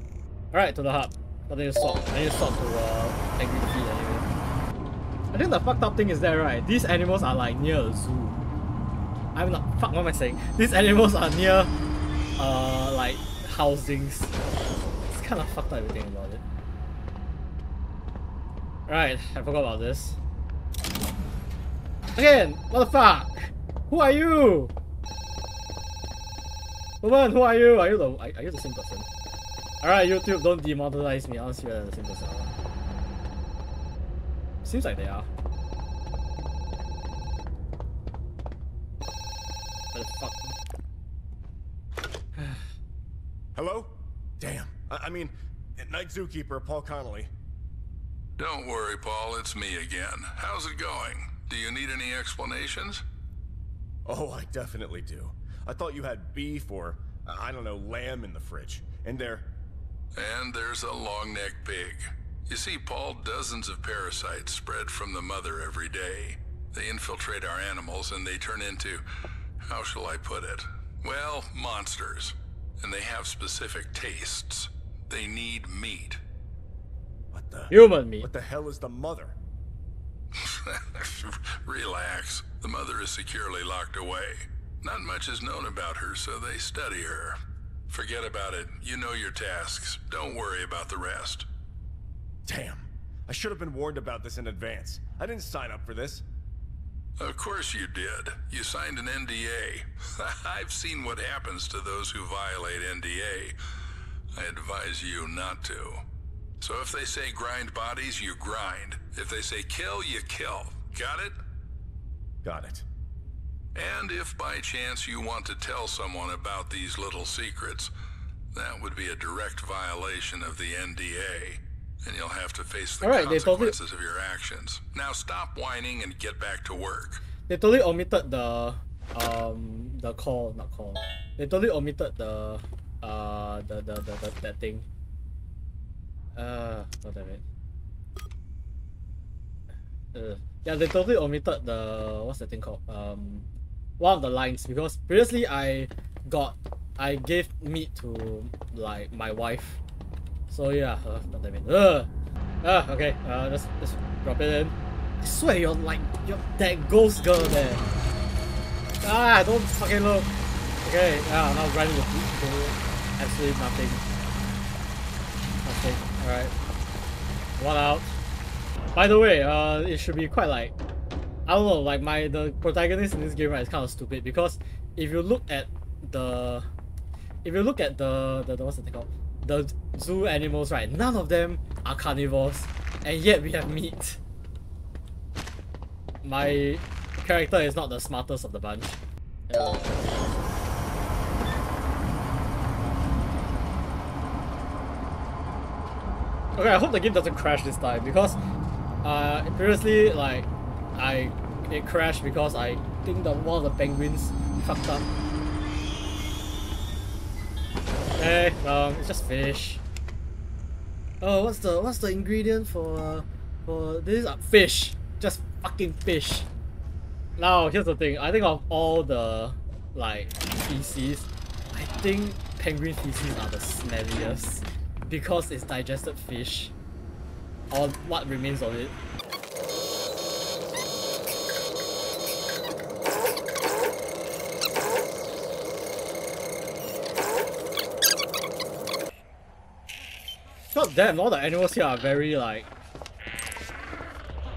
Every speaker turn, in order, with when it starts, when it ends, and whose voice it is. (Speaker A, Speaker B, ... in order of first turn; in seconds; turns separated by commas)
Speaker A: 0.5-4.3, Speaker A: 5.3-8.4, Speaker A: 9.3-11.7, Speaker A: 12.4-14.3, Speaker A: 15.1-16.4, Speaker A: 18.9-20.2, Speaker A: 22.1-24.7, Speaker A: 27.0-29.1, Speaker A: 29.8-32.5, Speaker A: 34.6-35.3, Speaker A: 39.9-40.5, Speaker B: 43.5-47.3, Speaker C: 48.4-53.0, Speaker B: 54.1-59.5, Speaker C: 60.1-69.0, Speaker C: 69.6-76.2, Speaker B: 77.3-79.4, Speaker A: 77.7-78.3, Speaker C: 80.3-87.4, Speaker C: 87.9-91.5, Speaker B: 92.5-96.2, Speaker C: 97.2-103.5, Speaker C: 104.3-106.0, Speaker C: 106.6-111.3, Speaker B: 112.4-112.8, Speaker C: 113.7-117.9, Speaker C: 118.5-127.2, Speaker A: 123.0-123.7, Speaker A: 127.5-134.8, Speaker A: 136.3-137.4, Speaker A: 140.1-143.4, Speaker A: 144.0-149.8, Speaker A: 150.5-152.1, Speaker A: 152.6-157.8, Speaker A: 159.0-160.3, Speaker A: 160.8-164.0, Speaker A: 165.6-166.5, Speaker A: 167.6-168.1, Speaker A: 168.9-170.7, Speaker A: 171.5-176.7, Speaker A: 177.4-184.2, Speaker A: 186.2-190.4, Speaker A: 196.6-198.4, Speaker A: 199.0-205.1, Speaker A: 208.2-209.8, Speaker A: 211.2-216.5, Speaker A: 217.4-226.7, Speaker A: 227.7-228.9, Speaker A: 240.7-242.7